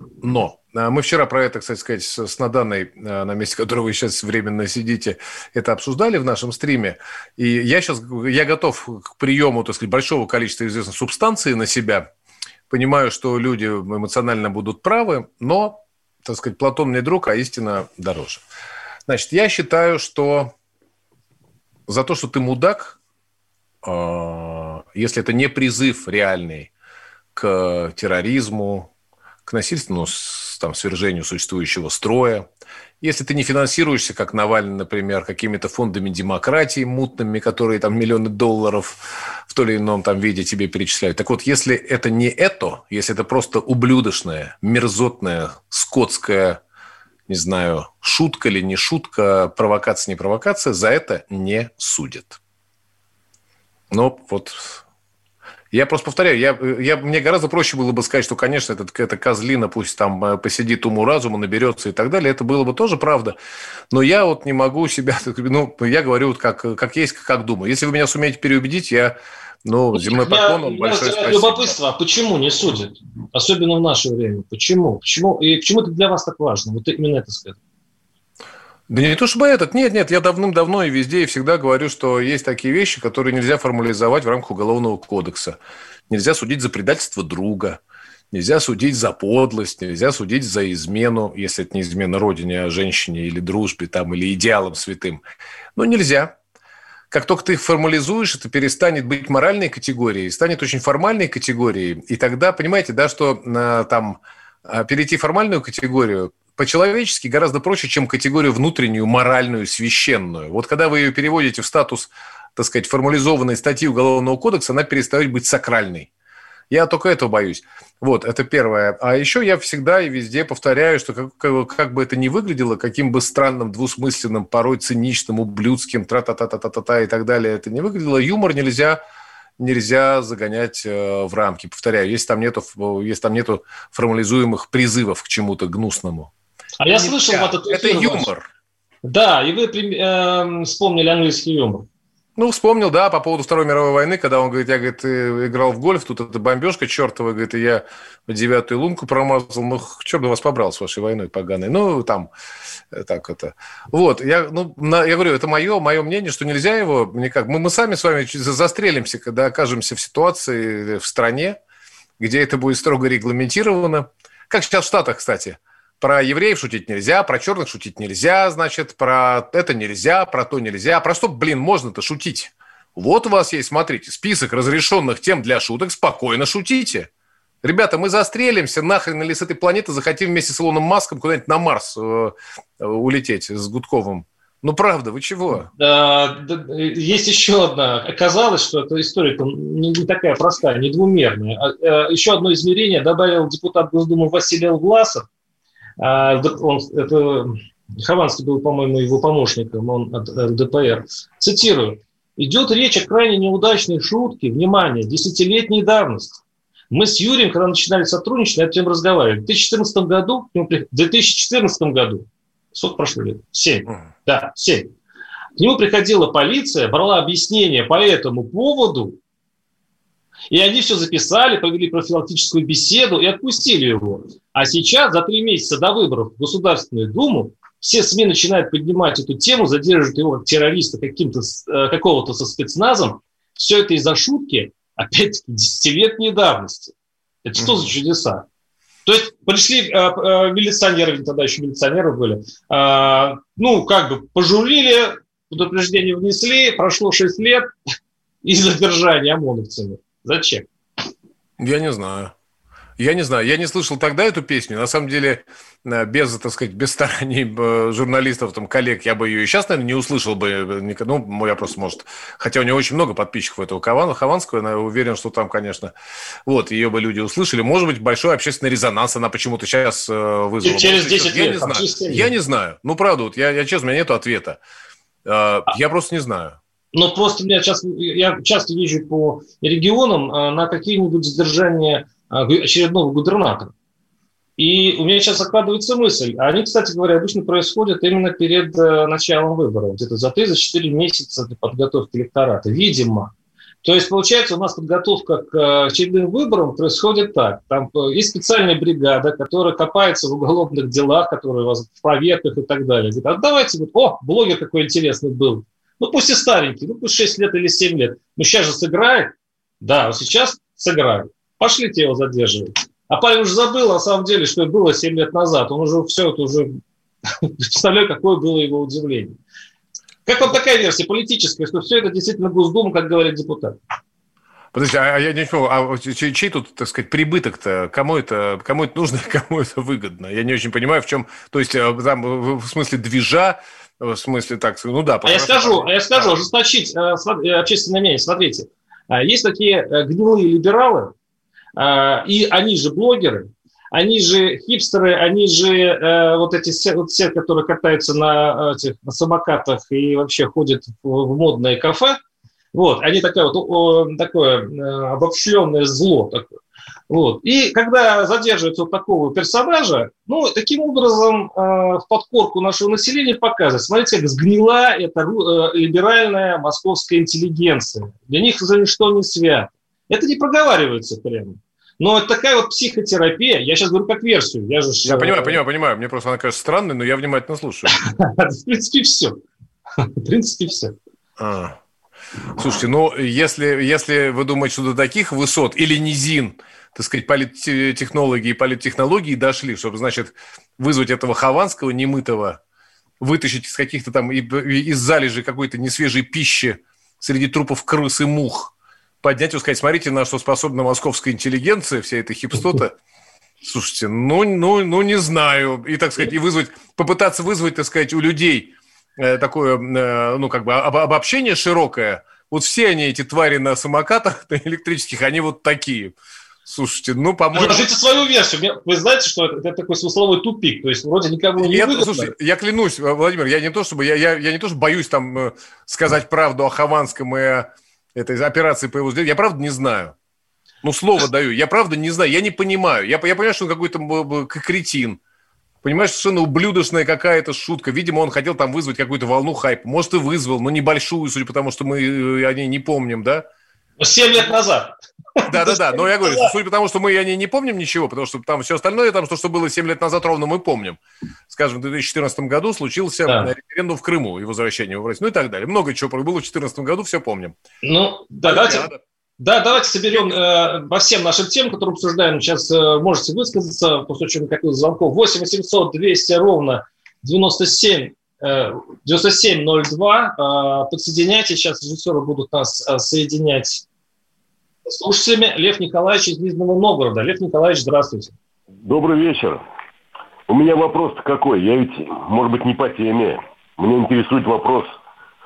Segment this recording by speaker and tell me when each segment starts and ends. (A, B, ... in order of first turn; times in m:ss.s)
0:00.2-0:12.1 A
0:12.7-0:18.4 A
0:19.1-0:20.5 A
0:21.9-0:23.0 A
0:23.8-0:26.7 A
0:27.3-0:28.9 A
0:29.5-0:32.5 A
0:33.0-0:46.6 A
0:47.3-0:52.4 A
0:53.9-0:54.8 A
0:55.7-1:03.4 A
1:03.9-1:11.8 A
1:10.0-1:17.6 B
1:18.9-1:25.6 A
1:26.1-1:27.8 A
1:28.3-1:35.2 A
1:35.8-1:36.4 A
1:37.1-1:56.1 A
1:56.7-2:09.0 A
2:09.6-2:16.3 A
2:16.8-2:18.3 B
2:16.9-2:18.5 A
2:19.0-2:21.9 B
2:22.4-2:32.3 A
2:32.9-2:41.6 A
2:42.2-2:57.1 A
2:57.6-3:05.7 A
3:05.7-3:15.3 B
3:16.0-3:34.9 B
3:35.6-3:39.2 B
3:40.5-3:56.9 B
3:57.4-3:58.4 B
3:57.6-3:57.9 A
3:59.0-4:07.7 B
4:08.4-4:10.7 B
4:11.6-4:12.3 A
4:13.0-4:25.9 A
4:26.5-4:34.6 A
4:30.6-4:32.3 B
4:35.2-4:36.6 A
4:36.9-4:43.7 B
4:44.6-4:53.3 B
4:53.8-5:16.8 B
5:17.4-5:19.4 B
5:20.2-5:23.8 B
5:24.7-5:36.4 A
5:35.2-5:41.1 B
5:41.8-5:52.2 B
5:52.7-5:56.6 B
5:57.1-6:15.6 B
6:15.0-6:18.0 A
6:18.0-6:19.4 B
6:20.0-6:21.0 B
6:21.4-6:21.8 A
6:22.6-6:32.6 A
6:33.2-6:42.9 A
6:43.6-6:57.9 A
6:57.5-7:02.3 B
7:01.6-7:10.2 A
7:10.8-7:15.2 A
7:15.8-7:23.5 A
7:24.0-7:26.5 B
7:25.5-7:37.6 A
7:37.8-7:38.9 B
7:38.4-7:39.0 A
7:39.4-7:53.8 B
7:54.9-7:58.4 B
7:58.8-7:59.6 C
8:00.5-8:04.9 C